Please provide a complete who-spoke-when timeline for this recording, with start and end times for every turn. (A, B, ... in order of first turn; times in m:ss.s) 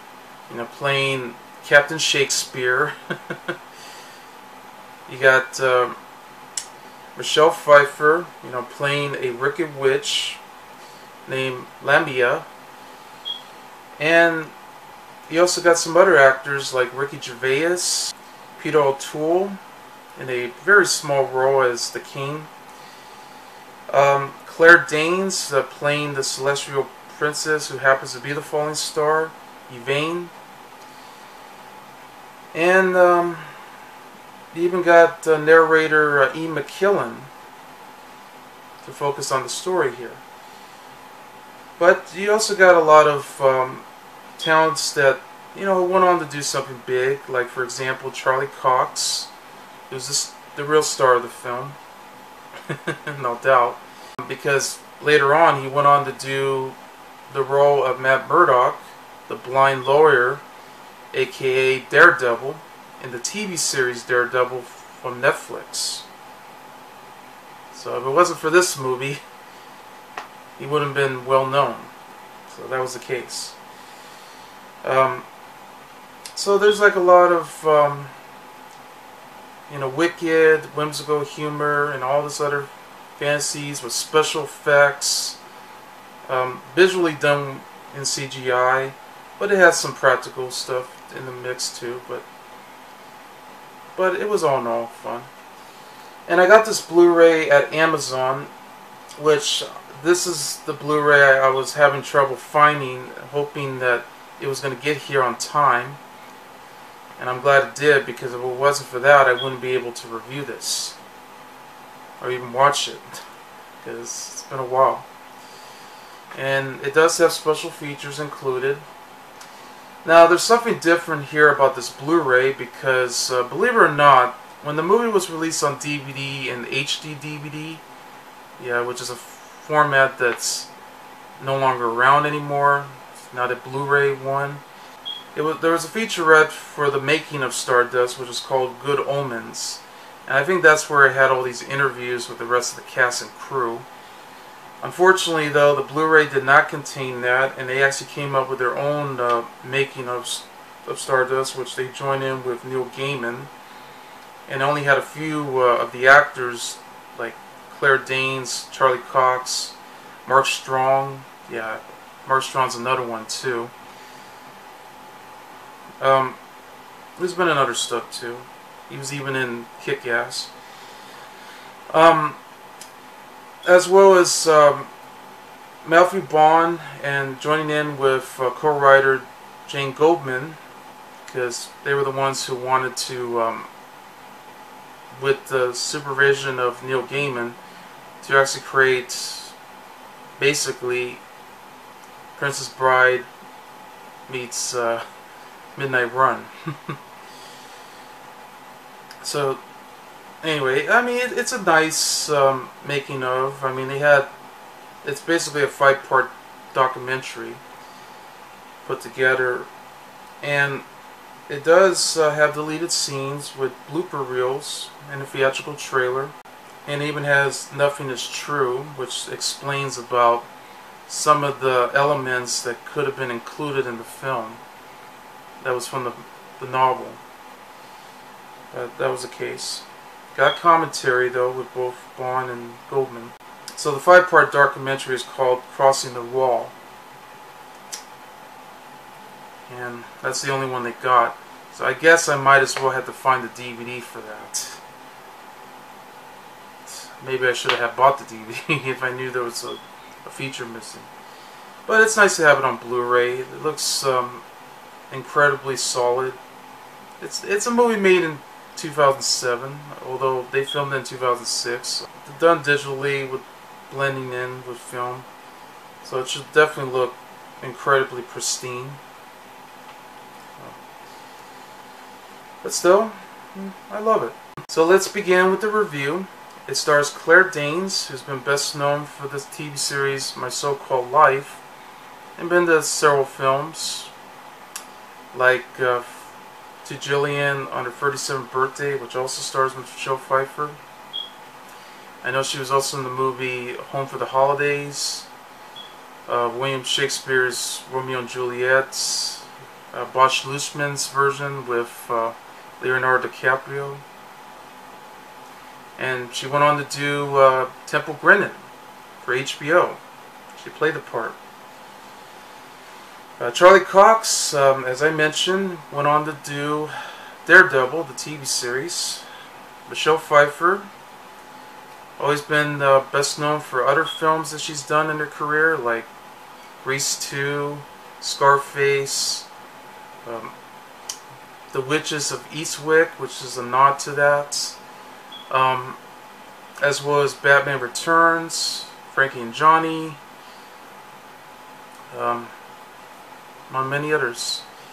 0:00.5-0:03.6 A
0:05.1-0:06.0 A
0:07.2-0:10.4 A
0:11.2-0:12.5 A
0:14.0-0:14.5 A
0:15.3-0:19.6 A
0:20.2-0:22.5 A
0:23.9-0:30.3 A
0:32.5-0:33.5 A
0:34.5-0:37.3 A
0:38.8-0:40.2 A
0:41.8-0:43.8 A
0:44.4-0:49.3 A
0:49.9-0:51.8 A
0:52.7-0:56.8 A
0:57.3-1:00.4 A
1:01.1-1:06.0 A
1:07.7-1:09.2 A
1:10.6-1:11.9 A
1:12.5-1:13.6 A
1:14.8-1:15.3 A
1:16.3-1:18.1 A
1:19.7-1:25.4 A
1:26.3-1:32.3 A
1:34.0-1:35.3 A
1:36.3-1:38.5 A
1:39.2-1:46.0 A
1:47.2-1:51.0 A
1:52.2-1:53.2 A
1:53.8-1:55.0 A
1:56.3-1:58.8 A
2:00.0-2:07.8 A
2:08.6-2:10.7 A
2:11.4-2:14.6 A
2:15.3-2:23.8 A
2:24.8-2:33.5 A
2:34.5-2:43.7 A
2:46.0-2:46.4 A
2:47.2-2:50.5 A
2:51.9-2:52.4 A
2:53.6-2:54.9 A
2:55.8-3:00.6 A
3:01.3-3:03.7 A
3:05.2-3:07.6 A
3:08.2-3:09.5 A
3:10.4-3:11.2 A
3:12.3-3:13.3 A
3:14.3-3:15.0 A
3:15.7-3:17.0 A
3:19.2-3:19.6 A
3:20.4-3:24.3 A
3:25.0-3:27.6 A
3:28.8-3:29.7 A
3:30.4-3:30.8 A
3:31.5-3:36.3 A
3:36.8-3:40.5 A
3:41.1-3:44.6 A
3:45.6-3:47.2 A
3:48.7-3:56.7 A
3:59.7-4:04.8 A
4:06.9-4:11.1 A
4:11.9-4:14.4 A
4:15.1-4:16.4 A
4:17.2-4:25.3 A
4:26.0-4:29.0 A
4:32.6-4:41.6 A
4:42.4-4:44.1 A
4:45.3-4:46.3 A
4:46.8-4:50.8 A
4:52.2-4:55.3 A
4:56.3-5:04.0 A
5:06.0-5:08.6 A
5:09.2-5:10.0 A
5:10.6-5:11.4 A
5:13.4-5:16.9 A
5:17.4-5:19.2 A
5:19.9-5:20.9 A
5:22.2-5:26.1 A
5:26.8-5:29.5 A
5:30.2-5:30.5 A
5:31.7-5:34.8 A
5:35.5-5:36.0 A
5:36.8-5:40.2 A
5:42.1-5:42.5 A
5:43.7-5:44.6 A